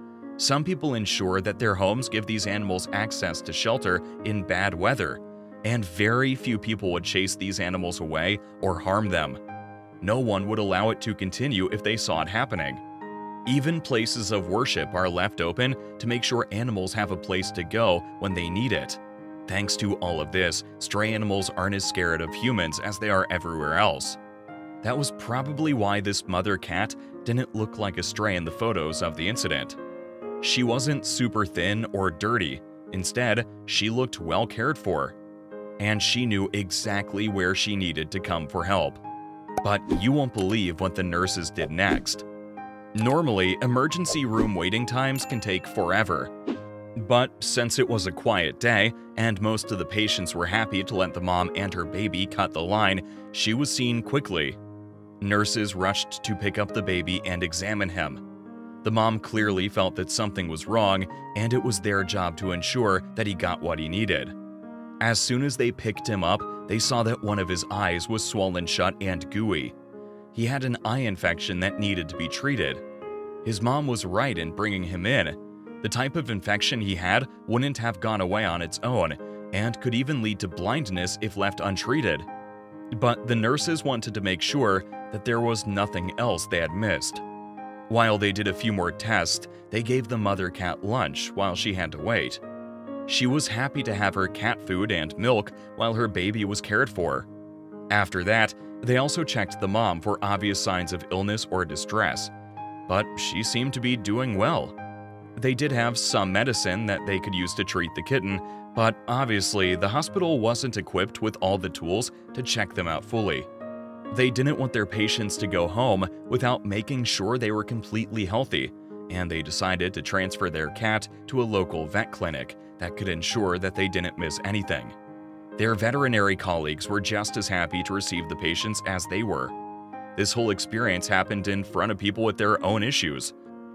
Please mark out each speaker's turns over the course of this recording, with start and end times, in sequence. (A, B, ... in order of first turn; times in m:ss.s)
0:00.4-0:09.4 A
0:10.0-0:12.8 A
0:13.4-0:24.2 A
0:24.8-0:29.8 A
0:30.4-0:35.2 A
0:35.8-0:39.0 A
0:39.6-0:42.2 A
0:42.9-0:46.3 A
0:47.0-0:54.6 A
0:55.2-0:58.2 A
0:58.8-1:04.3 A
1:05.0-1:09.7 A
1:10.3-1:12.8 A
1:13.4-1:22.3 A
1:22.9-1:27.2 A
1:27.9-1:32.4 A
1:33.1-1:37.3 A
1:37.9-1:42.3 A
1:42.9-1:44.8 A
1:45.4-1:53.5 A
1:54.1-2:04.9 A
2:05.6-2:09.5 A
2:10.2-2:13.3 A